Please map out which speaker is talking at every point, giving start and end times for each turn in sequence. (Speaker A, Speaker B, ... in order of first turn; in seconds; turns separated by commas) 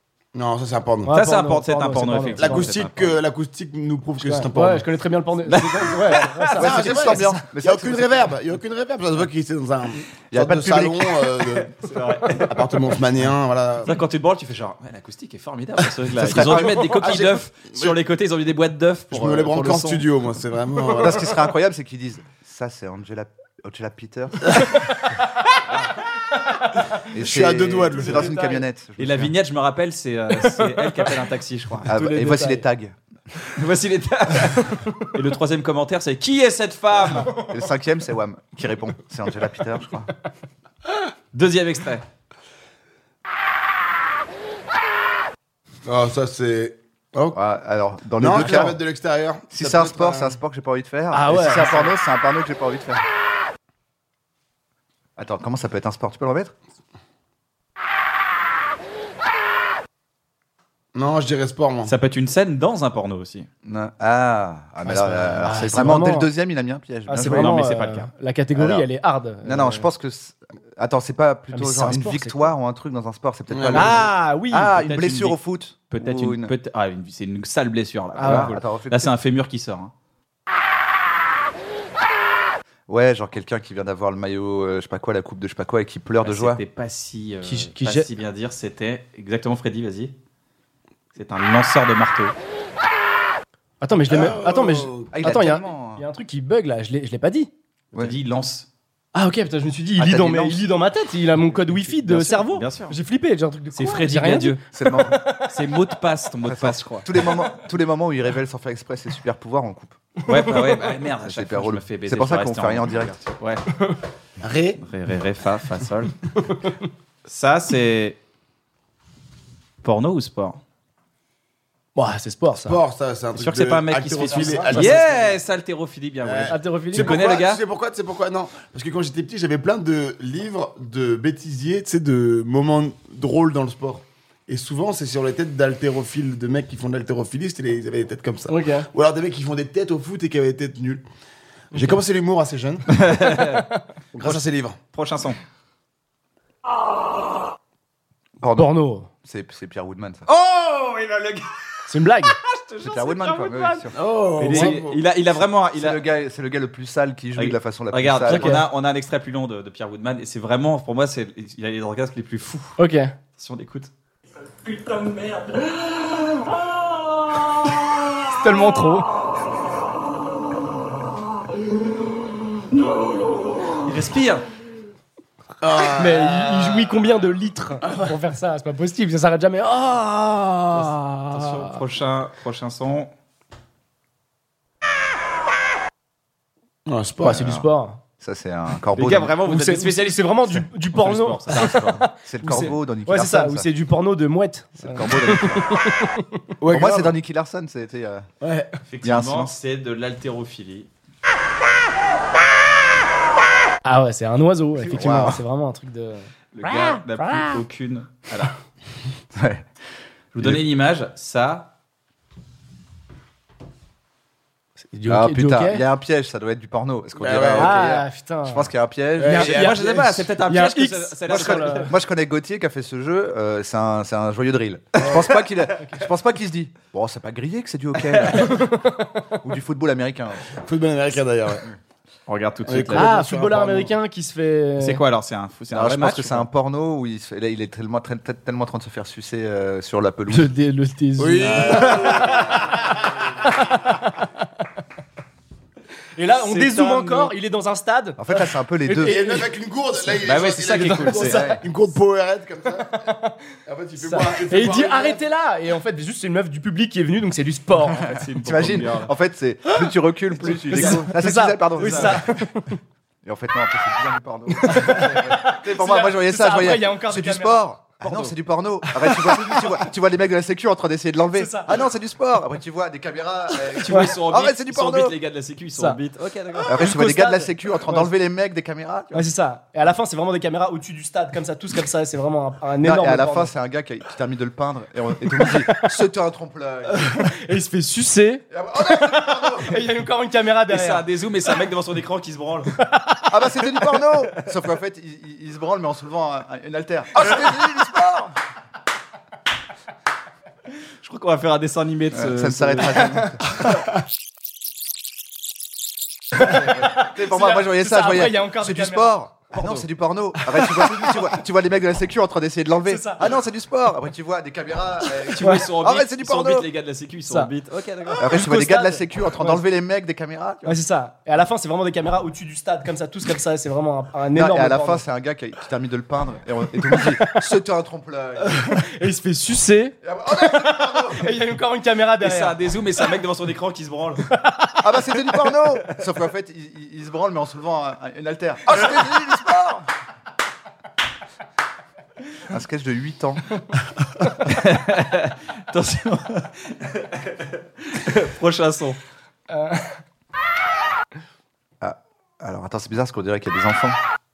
Speaker A: 0.3-1.1, Speaker B: 1.0-2.7, Speaker C: 1.1-3.2, Speaker A: 2.4-4.9, Speaker B: 4.2-7.2, Speaker C: 5.5-6.6, Speaker D: 6.5-8.3, Speaker A: 6.6-14.0, Speaker D: 10.3-11.2, Speaker C: 11.7-12.9, Speaker C: 13.8-20.1, Speaker D: 16.2-16.9, Speaker A: 16.3-17.9, Speaker A: 19.1-21.4, Speaker D: 20.9-24.8, Speaker D: 27.1-29.3, Speaker A: 27.1-28.3, Speaker B: 27.9-28.6, Speaker C: 29.0-32.4, Speaker B: 30.4-31.1, Speaker D: 31.9-33.0, Speaker B: 32.0-32.6, Speaker C: 33.5-37.3, Speaker B: 34.5-35.1, Speaker D: 37.3-40.1, Speaker C: 41.3-42.0, Speaker A: 45.8-47.4, Speaker D: 47.3-48.8, Speaker A: 48.2-50.4, Speaker D: 49.5-53.0, Speaker B: 51.1-51.9, Speaker D: 55.2-56.5, Speaker A: 60.9-61.9, Speaker C: 61.8-63.5, Speaker D: 63.6-67.7, Speaker B: 64.8-66.3, Speaker B: 67.1-69.9, Speaker C: 67.2-68.1, Speaker D: 68.5-68.8, Speaker D: 69.4-76.5, Speaker B: 71.5-72.5, Speaker A: 73.5-73.9, Speaker B: 73.7-74.7, Speaker C: 74.7-75.4, Speaker C: 75.9-79.9, Speaker B: 78.2-78.6, Speaker D: 78.2-79.1, Speaker D: 82.9-86.6, Speaker C: 86.2-90.1, Speaker B: 87.4-88.1, Speaker C: 91.1-92.3, Speaker B: 93.8-97.5, Speaker A: 94.0-95.1, Speaker D: 95.0-96.0, Speaker C: 97.9-98.7, Speaker B: 99.1-105.5, Speaker D: 100.0-100.7, Speaker C: 101.8-103.0, Speaker C: 103.7-104.6, Speaker D: 104.7-105.2, Speaker C: 105.4-107.1, Speaker D: 106.4-110.0, Speaker C: 110.2-113.6, Speaker D: 111.2-113.2, Speaker A: 114.4-114.8, Speaker C: 114.8-116.5, Speaker C: 117.2-118.2, Speaker C: 119.8-120.6, Speaker B: 122.0-122.8, Speaker A: 122.6-125.3, Speaker C: 123.3-127.6, Speaker B: 124.7-125.0, Speaker A: 126.2-141.0, Speaker B: 126.5-127.2, Speaker B: 138.5-138.9, Speaker A: 141.7-143.0, Speaker C: 142.9-143.7, Speaker B: 143.3-143.8, Speaker A: 144.1-144.8, Speaker C: 144.2-145.4, Speaker D: 148.4-150.3, Speaker B: 148.6-149.1, Speaker C: 150.3-151.8, Speaker B: 151.9-152.3, Speaker C: 152.3-156.0, Speaker D: 152.8-153.9, Speaker A: 153.9-155.0, Speaker B: 154.5-154.8, Speaker D: 155.7-158.6, Speaker C: 157.3-162.8, Speaker B: 158.3-158.6, Speaker B: 162.8-163.1, Speaker C: 163.4-163.9, Speaker C: 164.8-165.8, Speaker B: 168.3-169.1, Speaker C: 173.7-174.4, Speaker A: 175.6-176.9, Speaker B: 175.9-181.8, Speaker C: 180.7-183.1, Speaker A: 186.8-187.5, Speaker B: 187.2-188.0, Speaker D: 187.2-187.6, Speaker D: 188.2-189.3, Speaker C: 188.9-192.1, Speaker B: 189.4-196.3, Speaker D: 192.2-193.7, Speaker D: 194.8-195.8, Speaker A: 196.6-197.1, Speaker D: 196.7-198.3, Speaker B: 198.4-198.7, Speaker C: 198.9-200.9, Speaker D: 199.0-199.6, Speaker B: 203.8-207.5, Speaker D: 204.9-205.4, Speaker C: 206.5-208.5, Speaker D: 209.3-209.7, Speaker C: 210.3-211.7, Speaker B: 214.9-215.8, Speaker D: 215.1-219.7, Speaker A: 217.2-217.8, Speaker B: 217.5-218.7, Speaker A: 219.2-220.2, Speaker B: 219.2-221.9, Speaker C: 219.3-221.9, Speaker D: 221.4-228.8, Speaker B: 228.3-229.3, Speaker D: 229.4-230.5, Speaker A: 230.5-231.7, Speaker C: 232.3-233.1, Speaker A: 232.6-233.9, Speaker B: 232.9-235.0, Speaker C: 234.8-236.4, Speaker D: 235.7-240.5, Speaker B: 240.3-242.7, Speaker A: 241.2-242.6, Speaker D: 241.4-242.3, Speaker B: 243.4-244.2, Speaker B: 246.2-248.2, Speaker C: 246.4-247.3, Speaker D: 248.2-249.2, Speaker B: 248.8-249.5, Speaker A: 249.0-253.0, Speaker C: 250.2-251.4, Speaker B: 250.7-251.6, Speaker D: 251.1-251.6, Speaker B: 252.8-253.4, Speaker A: 253.7-255.2, Speaker B: 254.0-258.2, Speaker C: 257.9-259.1, Speaker D: 258.3-262.5, Speaker B: 260.4-262.8, Speaker C: 261.8-262.1, Speaker D: 263.2-275.2, Speaker B: 264.5-267.6, Speaker C: 268.0-268.3, Speaker B: 269.1-269.7, Speaker B: 271.3-271.8, Speaker C: 273.8-276.8, Speaker B: 276.5-278.1, Speaker D: 276.7-279.2, Speaker B: 279.1-283.5, Speaker D: 282.8-287.3, Speaker B: 285.4-285.9, Speaker B: 286.9-291.0, Speaker D: 288.5-289.7, Speaker C: 290.7-292.8, Speaker B: 292.8-293.2, Speaker D: 293.3-298.3, Speaker C: 301.0-303.6, Speaker D: 302.1-303.4, Speaker D: 306.3-316.7, Speaker B: 306.3-309.1, Speaker C: 309.5-309.8, Speaker B: 310.8-311.1, Speaker B: 312.8-313.3, Speaker C: 315.3-318.3, Speaker B: 318.1-319.6, Speaker D: 318.2-320.8, Speaker B: 320.6-325.0, Speaker D: 324.3-328.9, Speaker B: 328.5-332.6, Speaker D: 330.1-331.0, Speaker C: 332.2-334.3, Speaker B: 334.3-334.8, Speaker D: 334.8-339.9, Speaker D: 342.5-343.4, Speaker C: 344.3-349.0, Speaker B: 349.5-350.0, Speaker D: 351.8-354.0